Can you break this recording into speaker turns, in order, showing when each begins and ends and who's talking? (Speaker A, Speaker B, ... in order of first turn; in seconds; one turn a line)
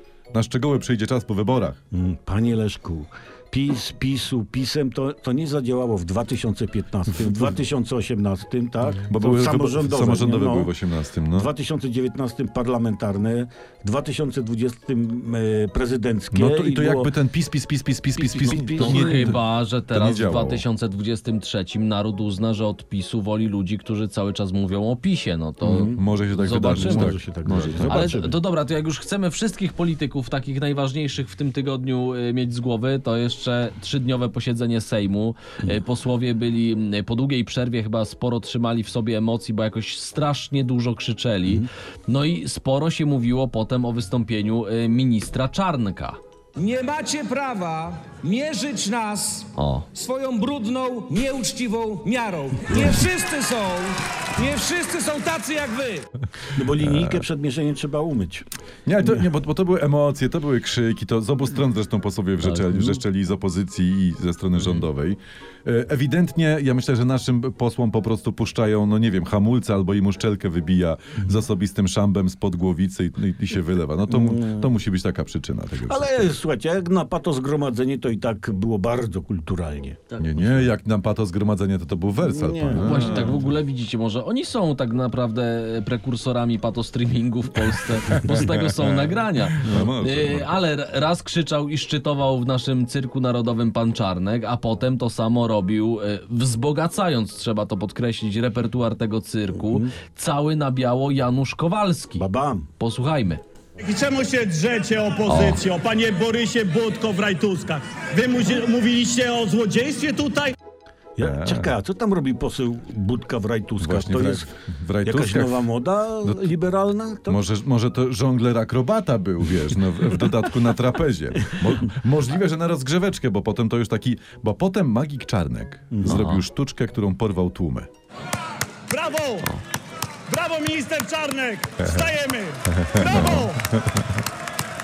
Speaker A: 0.3-1.8
Speaker B: 1.9-10.7
Speaker A: 9.0-11.5
Speaker B: 11.3-17.1
Speaker A: 16.3-20.6
Speaker B: 18.1-19.4
Speaker C: 18.4-46.2
Speaker B: 25.6-26.0
Speaker A: 25.9-28.2
Speaker B: 26.7-28.4
Speaker D: 46.7-56.0
Speaker C: 49.5-49.9
Speaker B: 56.5-58.5
Speaker A: 56.8-57.2
Speaker A: 58.9-76.3
Speaker C: 62.4-63.0
Speaker C: 64.6-64.8
Speaker B: 74.1-74.7
Speaker B: 75.8-80.0
Speaker A: 80.2-83.4
Speaker B: 82.2-83.5
Speaker C: 82.8-102.2
Speaker A: 88.1-90.5
Speaker B: 102.2-102.7
Speaker C: 102.8-103.4
Speaker E: 103.8-110.5
Speaker C: 105.2-105.7
Speaker B: 111.2-114.5
Speaker A: 111.2-111.8
Speaker A: 113.8-115.7
Speaker B: 115.0-117.4
Speaker A: 116.2-116.5
Speaker A: 117.3-127.9
Speaker B: 125.9-126.2
Speaker C: 126.0-126.4
Speaker E: 128.9-129.5
Speaker E: 130.3-133.6
Speaker A: 131.8-132.1
Speaker A: 132.7-134.2